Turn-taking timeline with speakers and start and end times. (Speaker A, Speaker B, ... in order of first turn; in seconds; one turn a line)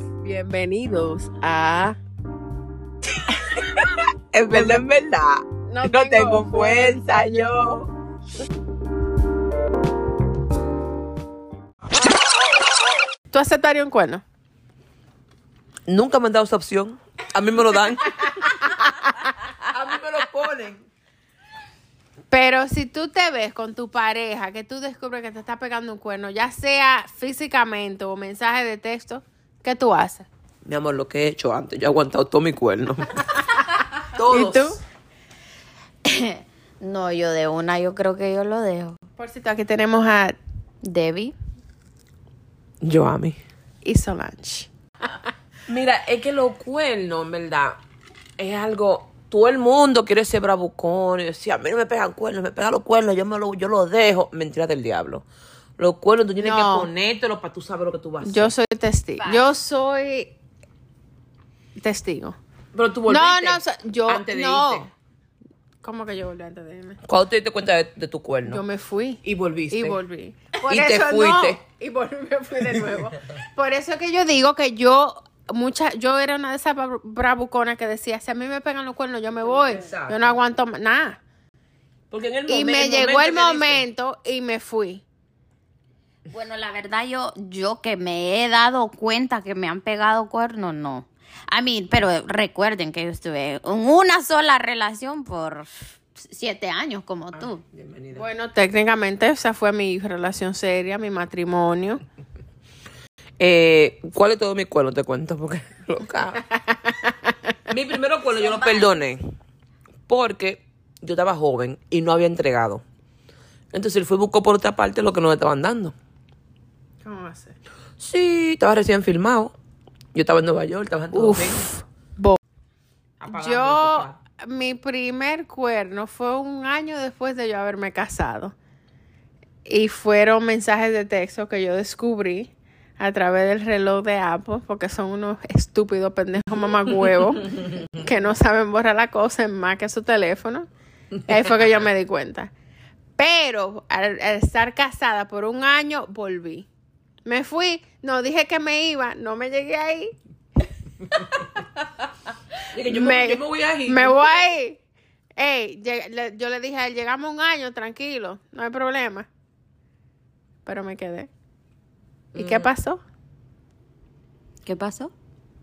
Speaker A: 0.2-2.0
Speaker B: 3.4-7.9
Speaker A: 4.5-4.8
Speaker A: 5.7-7.5
Speaker A: 13.3-14.2
Speaker B: 15.9-18.7
Speaker B: 19.6-20.8
Speaker A: 22.3-30.3
Speaker B: 30.6-33.2
Speaker B: 34.1-34.8
Speaker A: 34.2-34.8
Speaker C: 36.0-39.0
Speaker A: 39.2-40.4
Speaker C: 40.8-41.4
Speaker B: 42.8-43.4
Speaker A: 43.8-44.7
Speaker B: 45.7-47.8
Speaker B: 48.4-55.2
Speaker B: 55.8-58.5
Speaker A: 56.4-56.9
Speaker A: 58.2-60.4
Speaker C: 59.2-59.4
Speaker A: 61.8-62.4
Speaker B: 62.7-64.9
Speaker A: 63.1-64.9
Speaker A: 65.8-67.0
Speaker B: 67.1-68.6
Speaker A: 68.5-81.2
Speaker B: 69.2-70.0
Speaker B: 70.6-71.6
Speaker B: 79.4-80.4
Speaker B: 82.1-83.8
Speaker A: 82.5-85.0
Speaker C: 86.3-97.6
Speaker B: 97.3-98.3
Speaker A: 98.1-102.0
Speaker B: 103.4-106.4
Speaker A: 106.6-107.3
Speaker B: 107.7-109.3
Speaker C: 108.3-109.0
Speaker B: 110.1-112.8
Speaker B: 113.7-116.0
Speaker A: 117.0-117.6
Speaker B: 118.0-119.5
Speaker B: 120.1-121.7
Speaker A: 121.1-122.4
Speaker B: 123.2-124.2
Speaker A: 123.3-128.6
Speaker A: 129.7-140.7
Speaker A: 141.2-142.5
Speaker A: 143.2-146.7
Speaker A: 147.3-150.2
Speaker B: 151.1-151.5
Speaker B: 152.7-154.4
Speaker A: 152.8-154.8
Speaker A: 155.4-159.3
Speaker A: 160.7-161.3
Speaker B: 162.3-162.7
Speaker A: 162.3-163.0
Speaker C: 164.7-165.1